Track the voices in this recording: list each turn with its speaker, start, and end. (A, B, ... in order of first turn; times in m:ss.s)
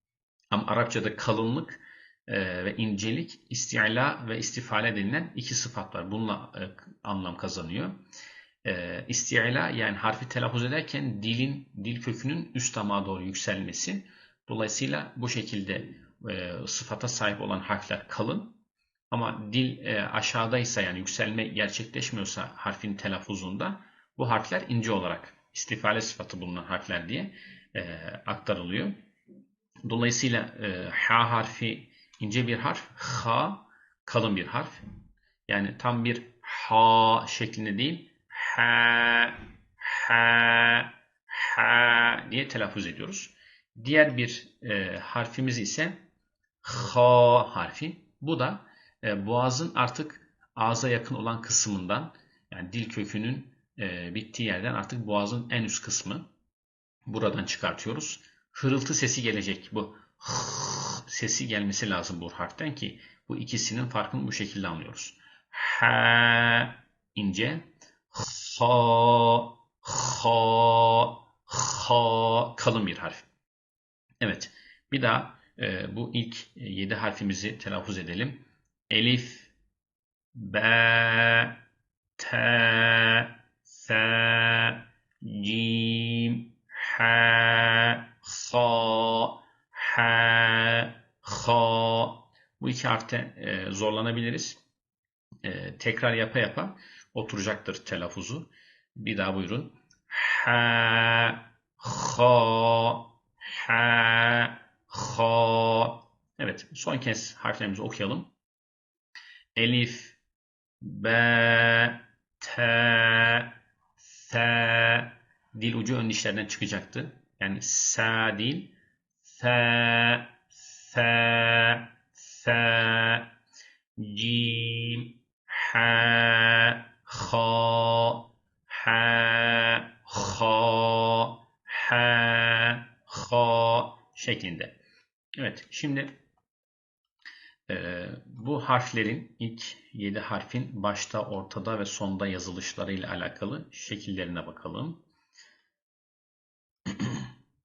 0:00.5-0:08.0 A
0:08.6-0:18.6 A
0:19.1-0:29.0 A
0:29.9-0:34.8 A
0:35.5-0:46.0 A
0:46.6-0:56.2 A
0:57.1-1:13.3 A
1:14.2-1:19.5 A
1:20.3-1:21.6 A
1:22.2-1:34.6 A
1:35.4-1:48.3 A
1:49.6-1:50.2 A
1:50.8-2:03.3 A
2:04.0-2:14.8 A
2:15.4-2:16.1 A
2:17.7-2:25.0 A
2:26.9-2:27.3 A